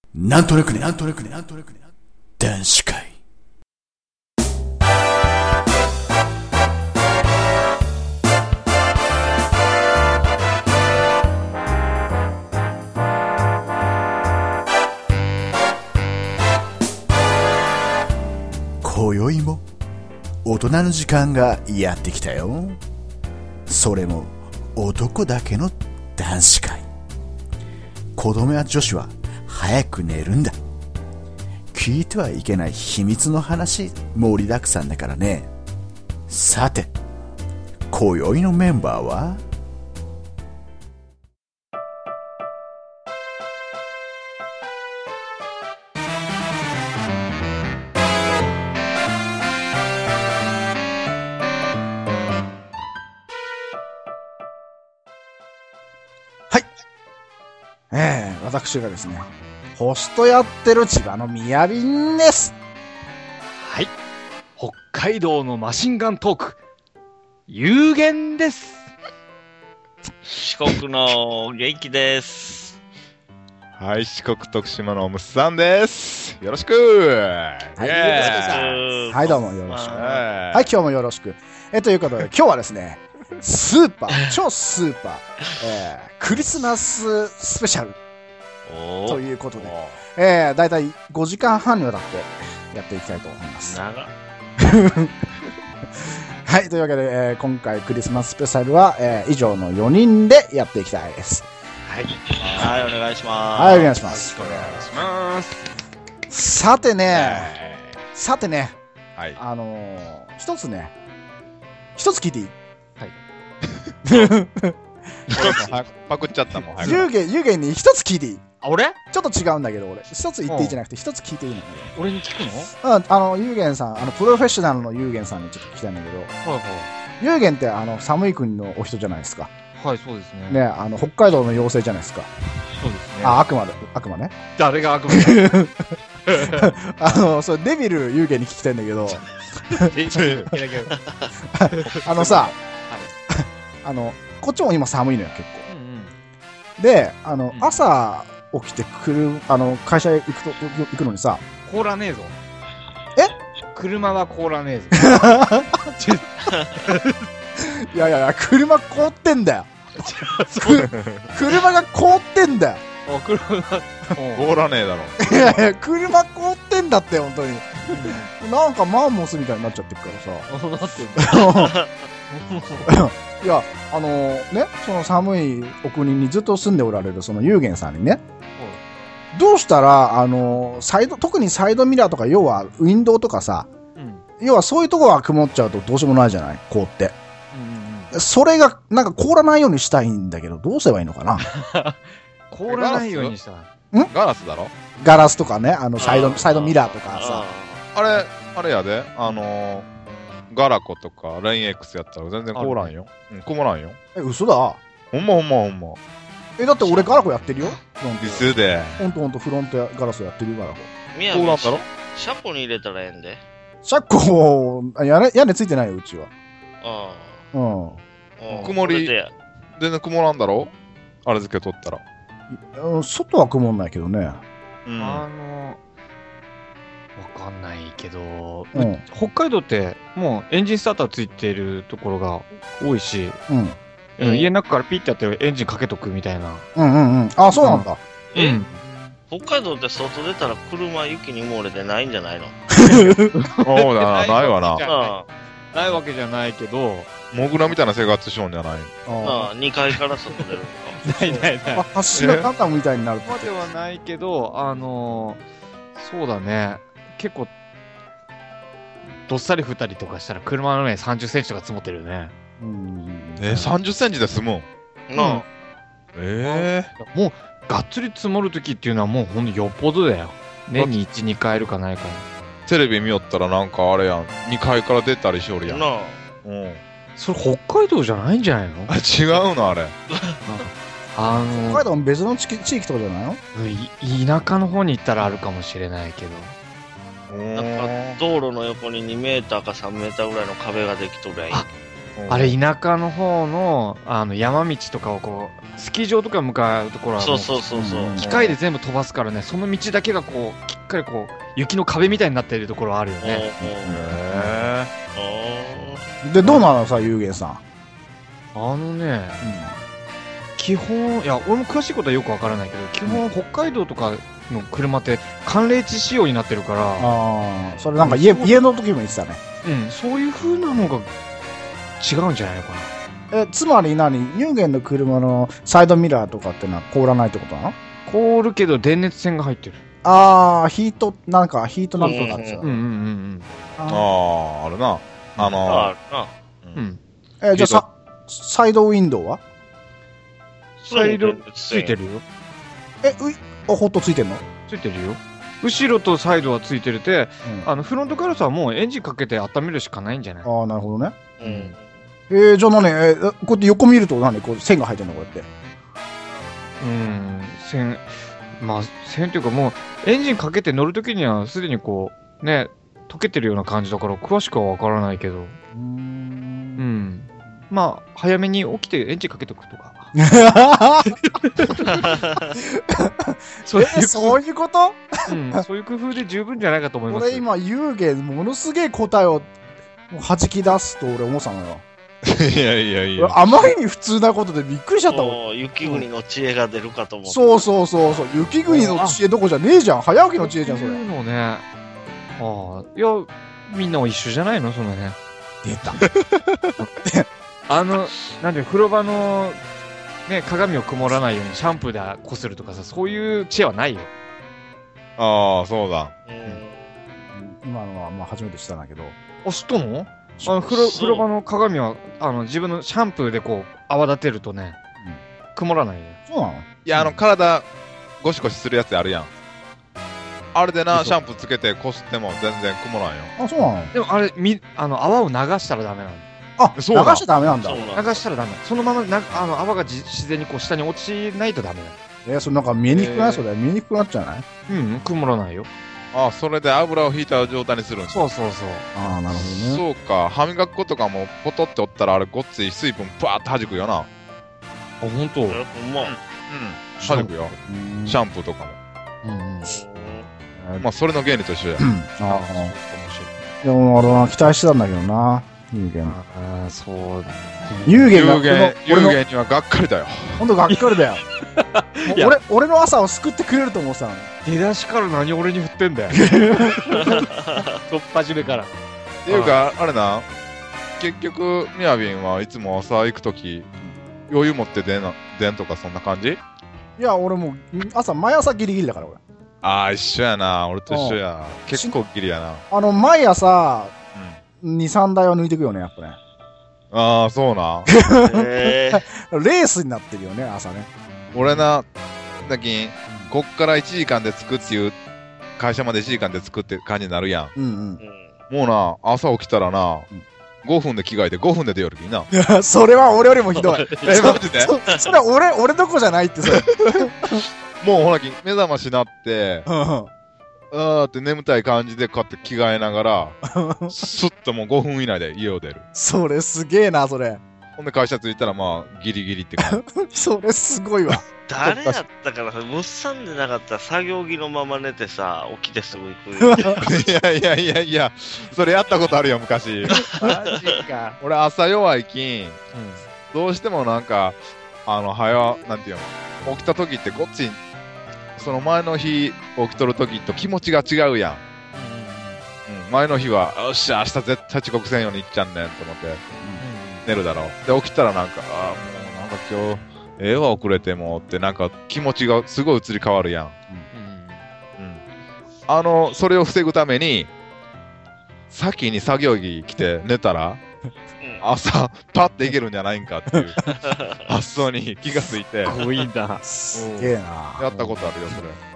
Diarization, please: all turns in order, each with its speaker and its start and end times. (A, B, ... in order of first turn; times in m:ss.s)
0:00.1-0:03.2 A
0:18.8-0:19.6 A
0:20.4-0:22.8 A
0:23.7-0:26.9 A
0:28.2-0:30.6 A
0:31.7-0:35.5 A
0:36.3-0:36.9 A
0:37.9-0:39.4 A
0:57.9-1:02.5 B
1:03.6-1:03.9 C
1:04.6-1:06.6 C
1:07.5-1:08.9 C
1:10.4-1:12.8 D
1:13.8-1:18.7 E
1:17.8-1:28.0 B
1:18.1-1:20.2 D
1:19.8-1:20.7 E
1:28.7-1:29.2 D
1:29.1-1:33.8 B
1:29.6-1:30.0 E
1:33.6-1:34.1 D
1:34.6-1:35.1 B
1:36.0-1:41.5 B
1:41.9-1:42.2 C
1:42.4-1:44.8 D
1:42.4-1:42.8 E
1:43.6-1:44.8 B
1:44.4-1:44.9 E
1:44.7-1:45.6 C
1:46.3-1:47.6 B
1:47.1-1:47.9 E
1:48.1-1:48.8 B
1:49.4-1:50.9 B
1:52.0-1:52.5 B
1:53.9-1:54.3 E
1:54.0-1:54.8 B
1:55.3-1:57.0 E
1:55.3-1:55.8 D
1:56.8-1:58.4 B
1:58.6-1:59.0 C
1:59.1-2:01.9 B
2:00.5-2:00.8 C
2:02.0-2:02.7 C
2:02.8-2:06.3 B
2:06.4-2:06.9 C
2:07.2-2:09.5 B
2:09.8-2:10.6 C
2:10.5-2:12.3 B
2:12.8-2:13.4 C
2:13.2-2:14.3 B
2:14.6-2:15.6 C
2:15.1-2:19.9 B
2:16.3-2:16.7 C
2:19.8-2:21.0 C
2:20.1-2:20.5 E
2:21.0-2:21.3 D
2:21.5-2:22.6 B
2:21.7-2:22.0 C
2:21.8-2:22.5 E
2:23.3-2:25.7 B
2:25.7-2:26.1 C
2:26.8-2:31.4 B
2:31.7-2:32.4 C
2:33.7-2:37.2 C
2:34.9-2:35.8 B
2:37.6-2:39.7 B
2:40.0-2:40.9 C
2:40.6-2:42.8 B
2:40.7-2:41.3 E
2:43.1-2:44.6 C
2:44.4-2:45.2 E
2:45.2-2:50.5 B
2:47.9-2:48.3 C
2:50.5-2:51.5 C
2:51.2-2:51.8 B
2:51.6-2:51.9 D
2:52.3-2:53.0 C
2:52.8-2:58.2 B
2:59.3-3:03.7 B
3:04.0-3:04.2 C
3:04.4-3:07.2 B
3:07.5-3:08.1 C
3:08.1-3:11.5 B
3:11.4-3:13.7 C
3:12.7-3:13.4 E
3:14.1-3:14.7 E
3:15.0-3:17.4 B
3:16.0-3:17.9 D
3:18.0-3:19.9 E
3:20.5-3:24.0 E
3:22.6-3:22.9 C
3:24.2-3:24.8 B
3:25.1-3:26.0 E
3:26.6-3:30.9 B
3:28.2-3:29.0 E
3:31.2-3:33.4 D
3:31.3-3:31.8 E
3:33.8-3:36.3 B
3:36.8-3:37.4 D
3:37.5-3:38.0 B
3:38.4-3:39.3 D
3:38.6-3:39.1 E
3:39.8-3:40.7 E
3:41.2-3:42.0 E
3:42.5-3:44.4 B
3:44.9-3:45.2 E
3:45.0-3:45.8 C
3:47.2-3:53.4 C
3:48.7-3:49.0 B
3:53.5-3:53.8 B
3:54.2-3:56.7 C
3:54.2-3:54.5 D
3:56.8-3:58.0 B
3:57.6-3:58.8 C
3:58.3-3:58.6 D
3:59.3-4:02.6 D
4:02.8-4:03.4 B
4:02.8-4:03.2 C
4:03.5-4:04.8 E
4:03.8-4:05.2 C
4:04.8-4:05.3 D
4:05.7-4:07.1 C
4:07.3-4:08.9 E
4:09.1-4:09.5 B
4:09.2-4:11.1 D
4:11.0-4:12.5 C
4:11.1-4:13.5 B
4:13.2-4:15.4 C
4:16.0-4:17.5 C
4:19.3-4:22.3 C
4:22.6-4:23.7 B
4:23.4-4:24.7 E
4:25.1-4:25.4 D
4:25.2-4:25.4 C
4:26.2-4:26.9 E
4:26.4-4:32.3 C
4:32.7-4:35.9 E
4:35.6-4:36.2 D
4:36.4-4:36.8 E
4:37.2-4:39.0 C
4:38.9-4:40.0 E
4:40.1-4:40.4 D
4:40.5-4:41.8 C
4:41.3-4:43.4 B
4:43.5-4:46.6 C
4:47.3-4:48.2 E
4:47.6-4:51.7 D
4:52.2-4:52.6 E
4:52.3-4:57.6 C
4:57.2-4:58.2 D
4:57.7-4:58.3 B
4:58.2-5:03.5 C
4:58.2-4:58.6 E
5:03.2-5:04.1 D
5:03.8-5:04.9 E
5:04.1-5:04.7 C
5:05.1-5:06.0 D
5:06.2-5:07.6 B
5:08.5-5:09.4 C
5:09.4-5:09.8 B
5:10.6-5:17.2 C
5:17.0-5:19.4 B
5:18.0-5:18.6 C
5:19.6-5:21.1 C
5:22.0-5:22.9 C
5:23.3-5:27.8 B
5:28.1-5:29.8 C
5:30.0-5:32.8 B
5:32.0-5:33.5 C
5:32.0-5:32.6 D
5:33.8-5:34.1 B
5:33.9-5:35.9 E
5:35.6-5:36.3 D
5:36.8-5:37.0 C
5:37.4-5:39.4 B
5:37.6-5:37.8 E
5:40.8-5:42.0 D
5:40.9-5:42.2 C
5:43.0-5:44.4 B
5:44.7-5:50.5 C
5:47.4-5:47.7 B
5:50.4-5:51.2 B
5:51.4-5:51.8 D
5:51.4-5:51.8 C
5:52.3-5:55.5 B
5:56.8-6:05.6 C
6:05.7-6:06.8 B
6:06.8-6:10.2 C
6:10.2-6:11.2 B
6:11.0-6:12.2 C
6:12.1-6:12.5 D
6:12.6-6:15.6 B
6:13.6-6:14.4 C
6:15.3-6:17.4 C
6:17.1-6:19.5 B
6:20.1-6:21.8 B
6:22.2-6:23.4 E
6:23.2-6:25.4 B
6:25.1-6:27.7 D
6:27.3-6:31.0 B
6:28.7-6:29.2 C
6:30.4-6:31.6 C
6:32.4-6:35.2 C
6:35.6-6:36.0 B
6:36.0-6:36.7 E
6:37.7-6:39.6 C
6:40.3-6:44.1 C
6:45.2-6:46.1 E
6:46.3-6:46.8 D
6:47.3-6:49.2 B
6:49.4-6:54.8 C
6:50.4-6:50.7 B
6:50.7-6:51.2 D
6:55.6-6:56.2 C
6:56.3-6:57.1 B
6:56.8-6:57.7 E
6:58.2-6:59.3 E
7:00.5-7:03.3 E
7:00.9-7:01.2 B
7:03.4-7:03.9 B
7:03.9-7:06.3 C
7:06.6-7:07.9 B
7:06.8-7:07.3 E
7:07.6-7:08.2 D
7:08.0-7:12.0 C
7:12.3-7:14.5 B
7:12.9-7:13.4 C
7:14.7-7:15.7 C
7:16.1-7:18.3 E
7:18.1-7:18.9 C
7:19.0-7:19.8 B
7:19.6-7:24.1 E
7:25.0-7:25.6 C
7:25.5-7:26.2 D
7:26.0-7:27.5 E
7:27.0-7:27.4 C
7:27.6-7:28.2 B
7:28.1-7:28.8 E
7:29.2-7:29.8 C
7:29.6-7:30.3 D
7:30.6-7:30.8 C
7:30.8-7:31.8 E
7:31.8-7:32.7 B
7:32.3-7:33.3 C
7:33.6-7:36.2 B
7:36.0-7:38.2 C
7:37.9-7:39.2 B
7:38.1-7:40.5 E
7:40.4-7:41.2 B
7:40.7-7:41.0 C
7:41.6-7:42.4 C
7:42.0-7:44.3 B
7:44.4-7:46.2 C
7:46.1-7:47.2 B
7:46.9-7:48.7 C
7:46.9-7:47.8 D
7:49.2-7:50.3 E
7:49.3-7:49.6 C
7:51.0-7:53.7 E
7:54.3-7:56.4 E
7:57.0-7:59.2 B
7:59.6-8:02.6 E
8:00.9-8:01.2 B
8:02.7-8:03.9 B
8:04.1-8:04.4 E
8:04.6-8:06.2 B
8:06.9-8:07.9 E
8:07.9-8:10.9 B
8:08.2-8:09.0 D
8:11.3-8:11.6 C
8:11.3-8:11.9 E
8:12.4-8:15.0 E
8:15.6-8:17.5 E
8:17.6-8:18.0 B
8:18.0-8:18.3 D
8:18.5-8:20.1 E
8:20.6-8:22.3 E
8:22.3-8:27.4 B
8:23.5-8:24.4 C
8:24.0-8:24.8 E
8:26.5-8:29.7 E
8:29.7-8:30.1 B
8:30.7-8:33.4 E
8:33.5-8:34.0 B
8:33.9-8:35.8 E
8:35.9-8:37.4 B
8:37.8-8:39.8 E
8:39.6-8:41.3 B
8:41.5-8:46.9 D
8:41.6-8:42.0 E
8:46.4-8:46.8 B
8:46.8-8:50.1 E
8:50.1-8:51.2 C
8:51.2-8:52.6 E
8:52.7-8:53.0 C
8:53.3-8:57.6 E
8:58.4-9:01.4 E
9:01.7-9:02.4 C
9:02.7-9:06.2 E
9:06.6-9:07.1 C
9:07.1-9:13.6 E
9:13.9-9:14.4 C
9:15.7-9:17.3 E
9:18.5-9:20.6 E
9:21.4-9:25.8 E
9:23.7-9:24.2 D
9:25.6-9:27.1 C
9:26.4-9:27.8 B
9:27.6-9:28.6 E
9:27.7-9:28.0 C